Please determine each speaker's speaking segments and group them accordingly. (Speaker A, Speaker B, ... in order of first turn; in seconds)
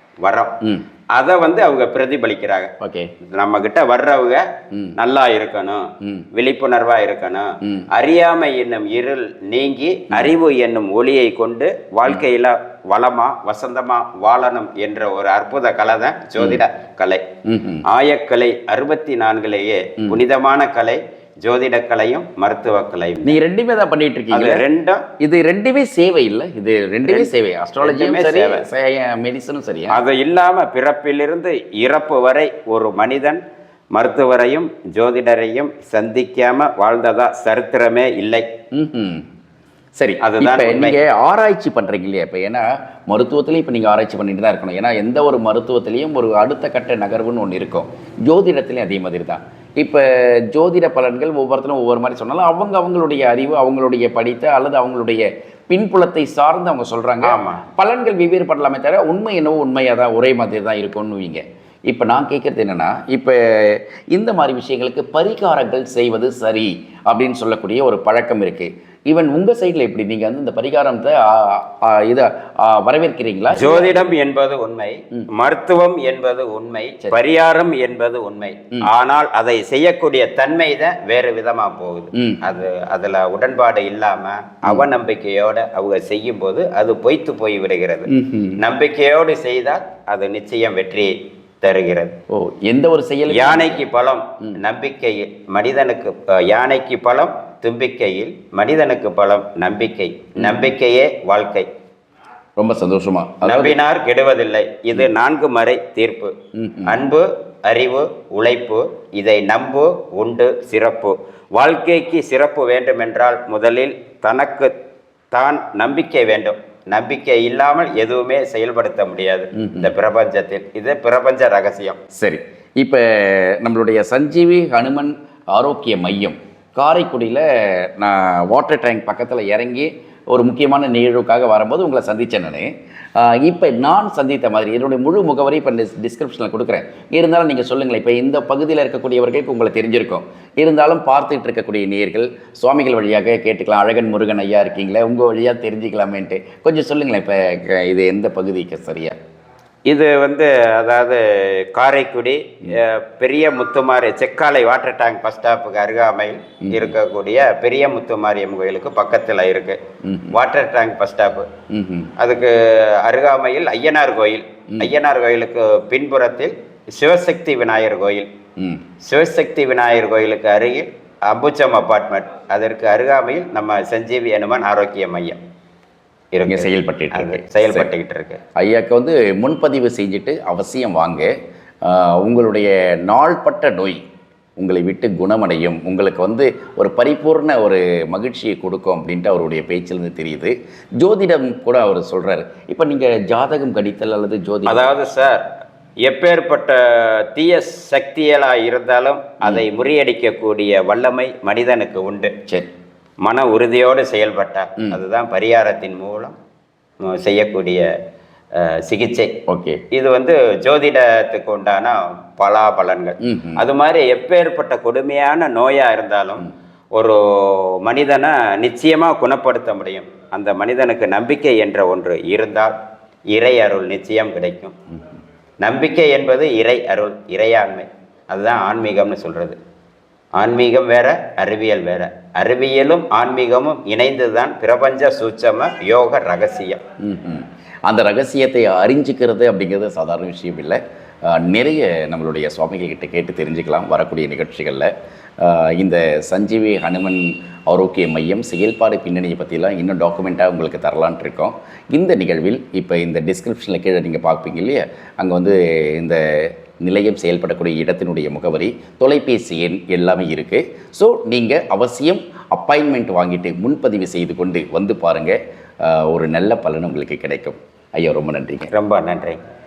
Speaker A: 0.2-0.6, 1.1-17.2, 17.9-23.4, 24.3-25.1, 27.0-28.7, 29.9-33.4, 33.9-38.5, 40.2-41.0, 57.2-57.6, 73.5-92.1, 93.3-101.7, 103.4-106.3, 106.8-114.7, 115.3-122.0, 149.8-159.8, 160.3-161.5, 162.2-168.3, 169.0-175.4, 176.3-178.4, 194.7-195.4, 196.0-202.3, 203.2-206.4, 207.0-207.9, 208.5-209.3, 209.9-222.8, 223.3-224.8, 225.6-229.6, 230.3-236.8, 268.7-269.4
Speaker B: 2.8-3.1, 4.7-5.0, 6.0-6.2, 10.1-10.4, 17.4-17.8, 23.2-24.6, 25.2-30.0, 38.7-39.3, 40.0-74.1, 82.1-82.4, 88.1-88.6, 92.3-93.8, 100.4-100.7, 102.6-103.8, 106.5-107.0, 119.5-119.9, 122.1-149.2, 156.6-156.9, 160.0-160.4, 161.7-162.1, 168.6-168.8, 176.4-177.9, 178.6-181.3, 181.8-184.0, 184.6-194.9, 209.5-209.8, 213.2-213.6, 237.0-268.7